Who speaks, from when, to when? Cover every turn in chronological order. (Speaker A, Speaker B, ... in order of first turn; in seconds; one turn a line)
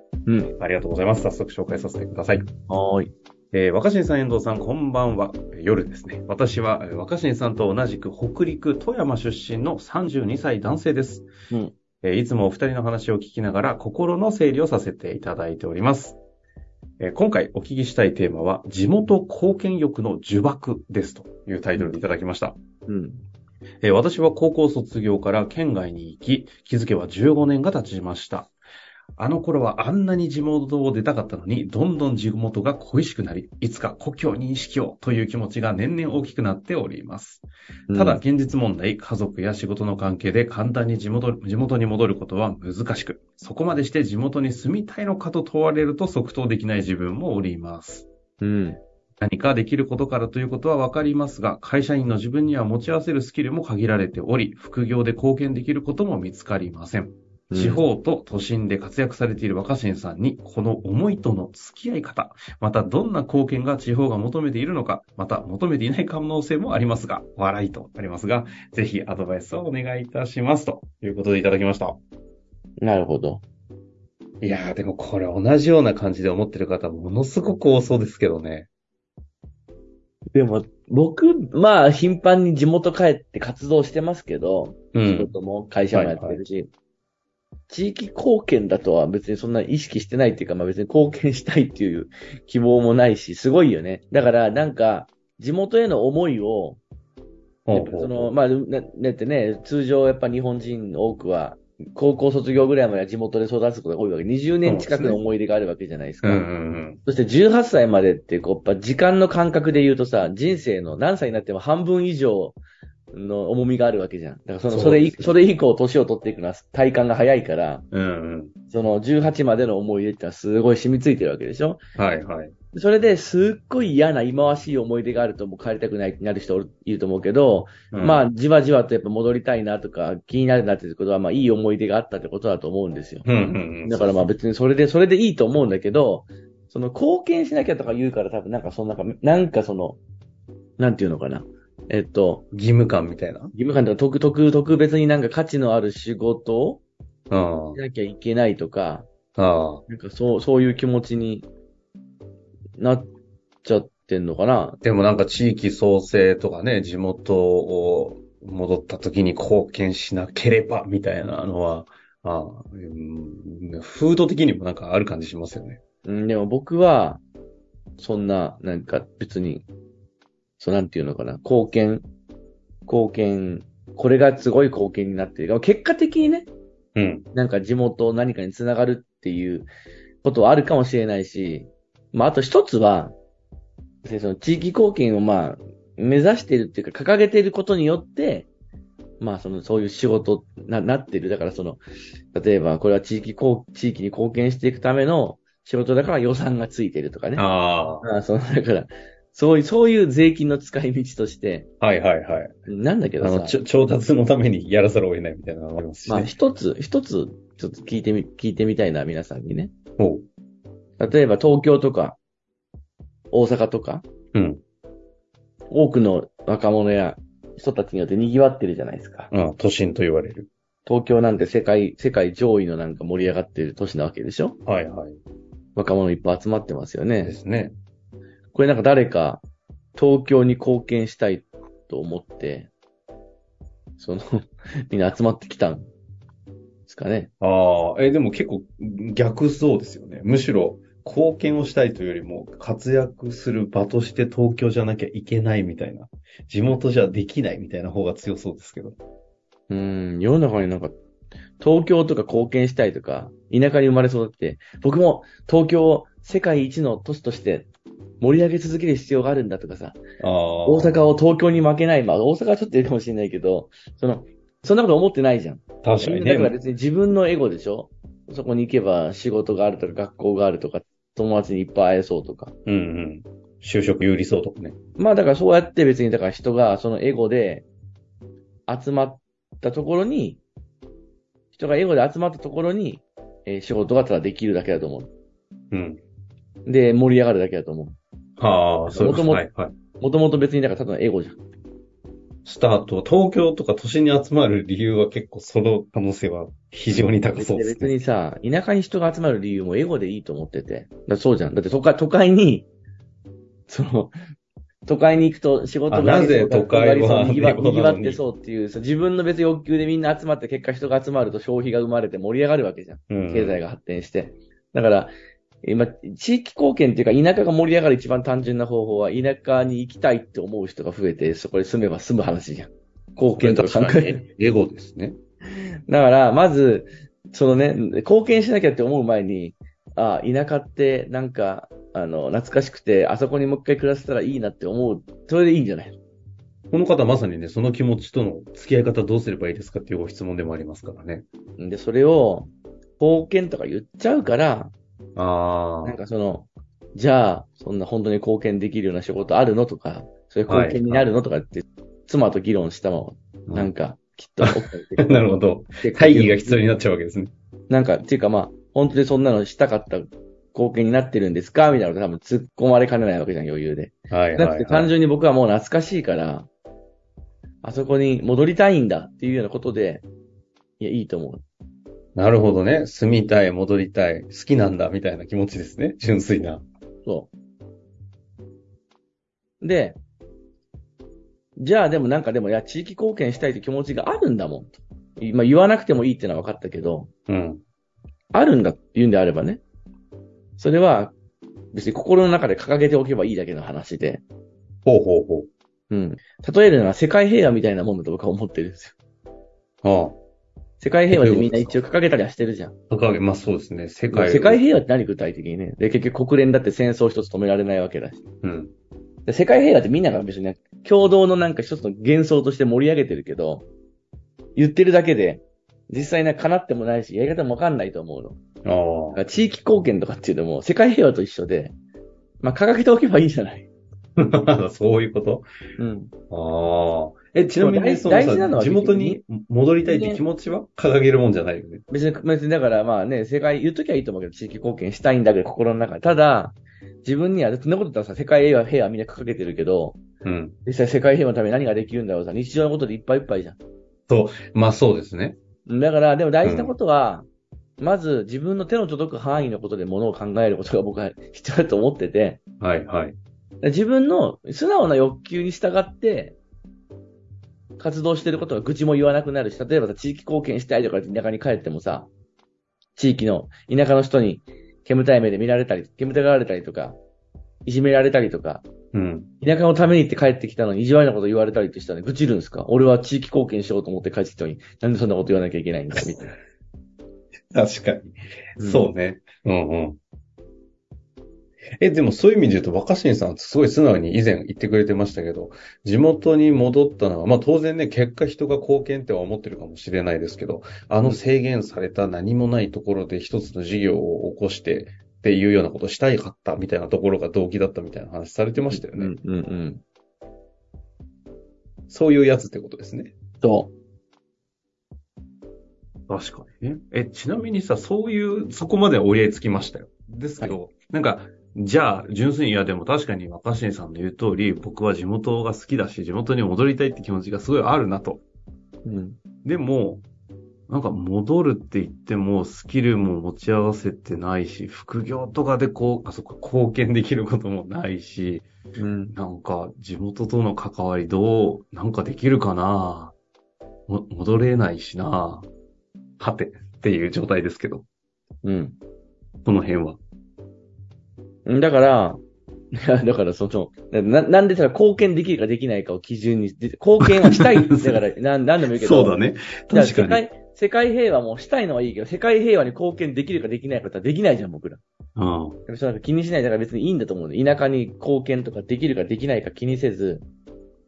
Speaker A: 0.3-0.5
Speaker B: 0.6-2.5
Speaker A: 2.7-3.1
Speaker B: 3.5-11.3
Speaker B: 12.0-16.2
Speaker B: 17.0-22.6
Speaker A: 22.9-23.2
Speaker B: 23.8-28.5
Speaker B: 29.2-48.1
Speaker A: 37.9-38.2
Speaker A: 48.4-48.8
Speaker B: 49.2-72.0
Speaker A: 57.5-57.8
Speaker A: 72.8-73.4
Speaker B: 74.4-78.7
Speaker A: 80.3-86.7
Speaker B: 84.9-85.3
Speaker B: 85.9-86.4
Speaker A: 87.7-96.8
Speaker B: 97.7-98.3
Speaker A: 97.7-106.5
Speaker B: 104.7-105.2
Speaker B: 106.2-107.0
Speaker A: 107.0-112.6
Speaker A: 113.1-117.8
Speaker B: 114.7-115.4
Speaker B: 117.9-118.5
Speaker A: 118.7-121.8
Speaker B: 122.0-122.5
Speaker A: 122.7-133.3
Speaker B: 127.9-128.2
Speaker B: 133.2-134.3
Speaker A: 133.8-140.0
Speaker A: 140.8-142.5
Speaker B: 142.5-143.5
Speaker A: 143.5-146.8
Speaker B: 147.3-147.8
Speaker A: 147.8-149.1
Speaker B: 149.4-149.8
Speaker A: 149.9-151.5
Speaker A: 152.8-153.1
Speaker A: 153.6-154.8
Speaker B: 154.8-165.8
Speaker A: 166.1-167.2
Speaker A: 168.0-169.7
Speaker A: 170.6-172.1
Speaker A: 172.9-176.5
Speaker B: 176.9-177.3
Speaker A: 177.3-179.7
Speaker A: 180.2-183.2
Speaker A: 184.0-188.5
Speaker A: 189.2-191.8
Speaker A: 192.3-197.5
Speaker B: 197.4-198.1
Speaker A: 198.0-201.7
Speaker B: 201.8-202.5
Speaker A: 202.7-203.6
Speaker B: 203.2-206.3
Speaker A: 206.1-209.7
Speaker B: 210.0-210.3
Speaker A: 211.0-212.2
Speaker A: 213.3-214.1
Speaker B: 214.3-214.6
Speaker A: 215.7-219.3
Speaker B: 219.3-220.5
Speaker A: 220.9-224.6
Speaker B: 224.7-225.2
Speaker A: 225.8-227.3
Speaker B: 227.2-227.8
Speaker A: 228.5-229.4
Speaker A: 230.0-232.7
Speaker A: 234.0-235.9
Speaker A: 236.9-237.3
Speaker B: 237.4-249.0
Speaker A: 249.7-250.9
Speaker A: 251.6-257.7
Speaker A: 258.2-260.0
Speaker B: 260.2-261.0
Speaker A: 260.7-272.6
Speaker B: 265.8-266.6
Speaker B: 272.7-274.8
Speaker A: 275.0-277.7
Speaker A: 278.7-280.4
Speaker A: 281.5-285.1
Speaker B: 285.7-286.0
Speaker A: 286.7-288.0
Speaker B: 288.4-289.8
Speaker A: 288.9-289.4
Speaker A: 290.0-291.4
Speaker B: 292.4-297.9
Speaker A: 297.3-302.7
Speaker A: 303.7-304.1
Speaker A: 304.9-315.1
Speaker B: 305.9-308.2
Speaker B: 313.1-313.6
Speaker A: 315.6-324.2
Speaker B: 323.4-325.2
Speaker A: 325.9-336.0
Speaker B: 336.7-341.3
Speaker A: 341.6-344.7
Speaker B: 345.2-345.9
Speaker A: 345.8-355.3
Speaker B: 350.5-351.1
Speaker B: 354.4-357.3
Speaker A: 355.8-356.6
Speaker A: 357.7-366.5
Speaker B: 364.1-364.9
Speaker A: 367.6-370.1
Speaker A: 370.8-371.4
Speaker B: 372.2-376.6
Speaker A: 377.1-377.3
Speaker A: 379.6-380.0
Speaker A: 381.6-387.1
Speaker B: 387.3-387.6
Speaker A: 388.3-389.6
Speaker A: 390.6-391.1
Speaker A: 391.7-394.2
Speaker B: 394.9-395.5
Speaker A: 395.9-399.0
Speaker B: 399.8-400.2
Speaker A: 400.8-402.7
Speaker B: 401.1-401.8
Speaker B: 402.9-404.6
Speaker A: 404.1-408.2
Speaker B: 408.4-408.7
Speaker A: 409.3-413.7
Speaker A: 414.6-418.4
Speaker B: 418.6-419.2
Speaker A: 419.1-421.8
Speaker A: 422.4-423.7
Speaker B: 424.2-425.4
Speaker A: 425.8-426.1
Speaker B: 426.3-431.8
Speaker A: 427.6-429.2
Speaker A: 429.8-430.2
Speaker A: 431.9-440.0
Speaker B: 440.2-440.6
Speaker A: 440.6-443.6
Speaker B: 444.1-445.4
Speaker A: 445.7-447.3
Speaker B: 446.4-446.7
Speaker A: 447.8-452.4
Speaker B: 452.6-453.2
Speaker A: 453.6-456.4
Speaker A: 457.8-462.1
Speaker A: 463.0-467.0
Speaker A: 467.7-468.6
Speaker B: 468.9-469.3
Speaker A: 469.4-476.4
Speaker B: 477.5-480.0
Speaker A: 478.6-478.9
Speaker B: 481.8-499.1
Speaker A: 498.6-499.8
Speaker B: 501.9-503.1
Speaker A: 503.4-503.7
Speaker B: 506.1-518.2
Speaker A: 518.9-519.2
Speaker B: 519.4-520.0
Speaker B: 520.7-528.5
Speaker A: 528.8-529.2
Speaker B: 529.1-533.1
Speaker B: 533.9-535.5
Speaker B: 536.2-537.9
Speaker A: 538.4-538.8
Speaker B: 539.5-540.0
Speaker A: 541.5-542.2
Speaker A: 542.7-549.2
Speaker B: 547.0-548.0
Speaker B: 548.7-550.2
Speaker A: 549.7-554.8
Speaker B: 555.2-555.6
Speaker A: 555.7-560.2